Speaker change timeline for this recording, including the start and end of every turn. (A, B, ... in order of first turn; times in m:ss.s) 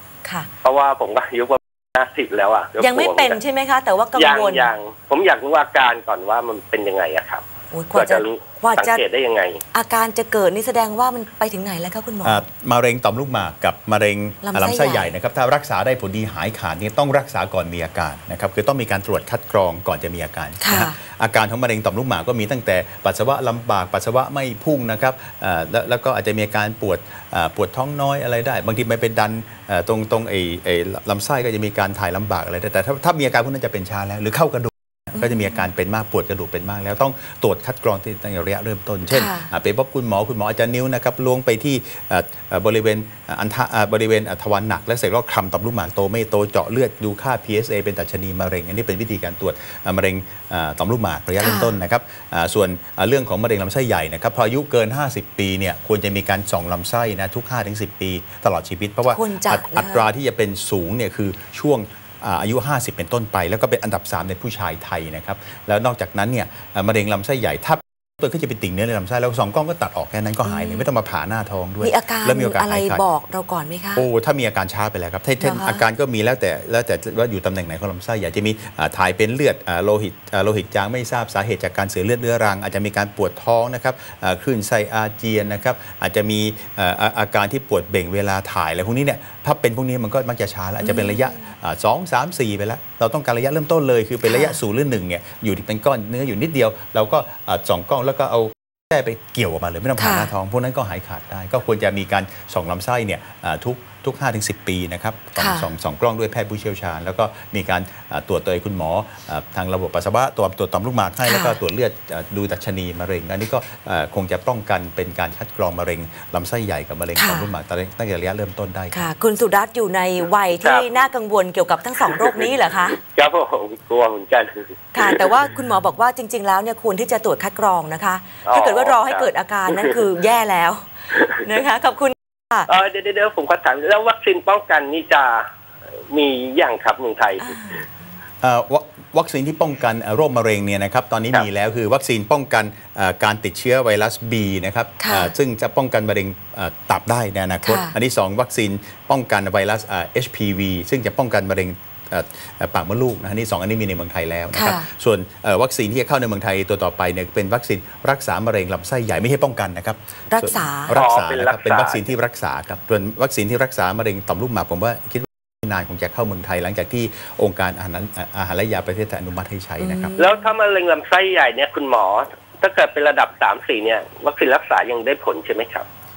0:00.6-0:03.4 A
0:02.8-0:04.7 B
0:04.1-0:07.4 A
0:07.7-0:09.0 B
0:07.9-0:09.6 A
0:09.7-0:12.4 B
0:12.2-1:13.0 C
0:14.4-0:15.2 B
0:20.6-0:21.0 B
0:35.1-0:35.6 B
0:39.1-0:39.5 B
0:51.4-0:51.8 B
0:59.1-1:00.1 B
1:10.4-1:10.8 B
1:11.8-1:14.0 B
1:14.0-1:59.0 C
1:15.4-1:15.8 B
1:30.8-1:31.2 B
1:34.2-1:34.6 B
1:40.0-1:40.3 B
1:45.4-1:45.7 B
1:51.2-1:51.6 B
1:57.2-1:57.5 B
1:58.9-2:03.0 B
2:00.6-2:00.9 A
2:02.0-2:05.2 A
2:04.9-2:12.7 B
2:08.4-2:09.8 A
2:12.7-2:15.5 A
2:16.1-2:17.6 A
2:17.4-2:17.8 B
2:18.4-2:50.1 C
2:25.0-2:25.3 B
2:27.6-2:28.0 B
2:34.5-2:34.9 B
2:40.3-2:40.9 B
2:40.9-2:42.1 A
2:49.8-2:50.4 B
2:50.2-2:55.8 A